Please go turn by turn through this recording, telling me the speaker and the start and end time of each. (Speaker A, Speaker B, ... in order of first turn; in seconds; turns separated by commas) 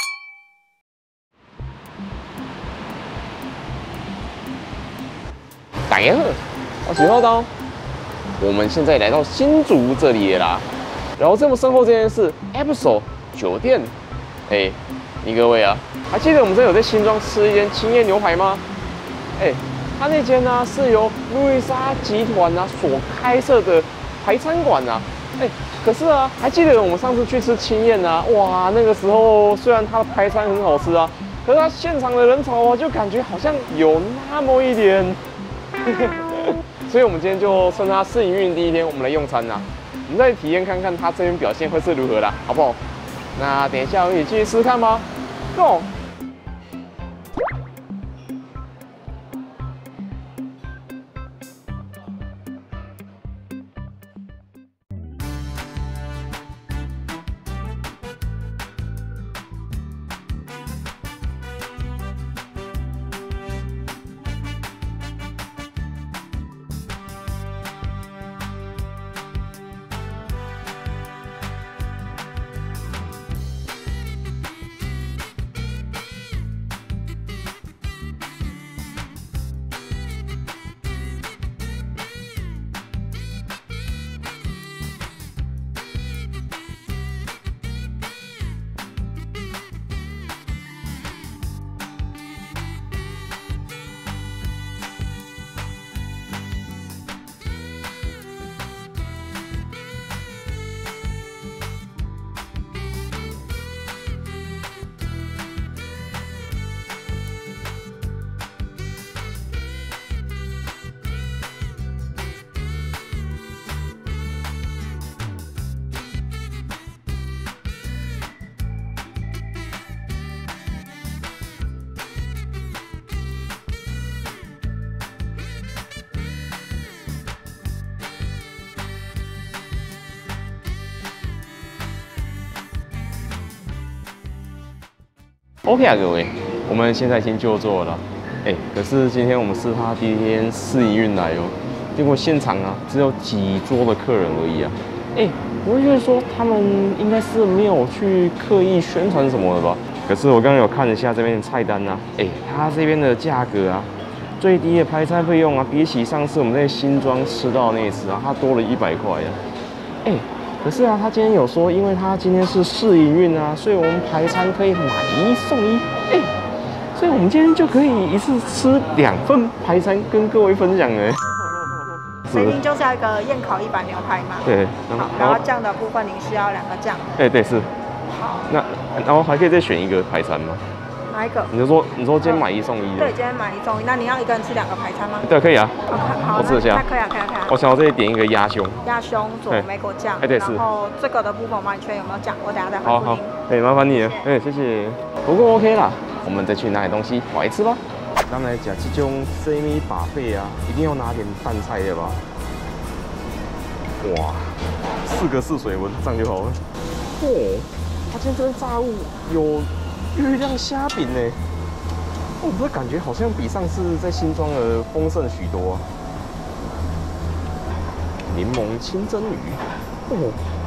Speaker A: 5.9-7.5, Speaker A: 8.4-13.9, Speaker A: 14.5-18.6, Speaker A: 19.4-35.2, Speaker A: 35.8-42.8, Speaker A: 43.3-45.9, Speaker A: 135.6-159.4, Speaker A: 160.0-166.3, Speaker A: 166.9-171.2, Speaker B: 172.3-177.1, Speaker A: 174.4-175.4, Speaker A: 177.2-177.7, Speaker A: 178.5-180.6, Speaker B: 181.1-181.5, Speaker A: 181.5-183.1, Speaker B: 183.0-185.2, Speaker A: 185.2-186.8, Speaker B: 185.9-187.6, Speaker A: 187.5-188.8, Speaker B: 188.8-193.3, Speaker A: 190.2-190.6, Speaker A: 192.8-202.2, Speaker A: 204.0-206.6, Speaker A: 207.1-211.4, Speaker A: 212.4-215.9, Speaker A: 218.3-220.4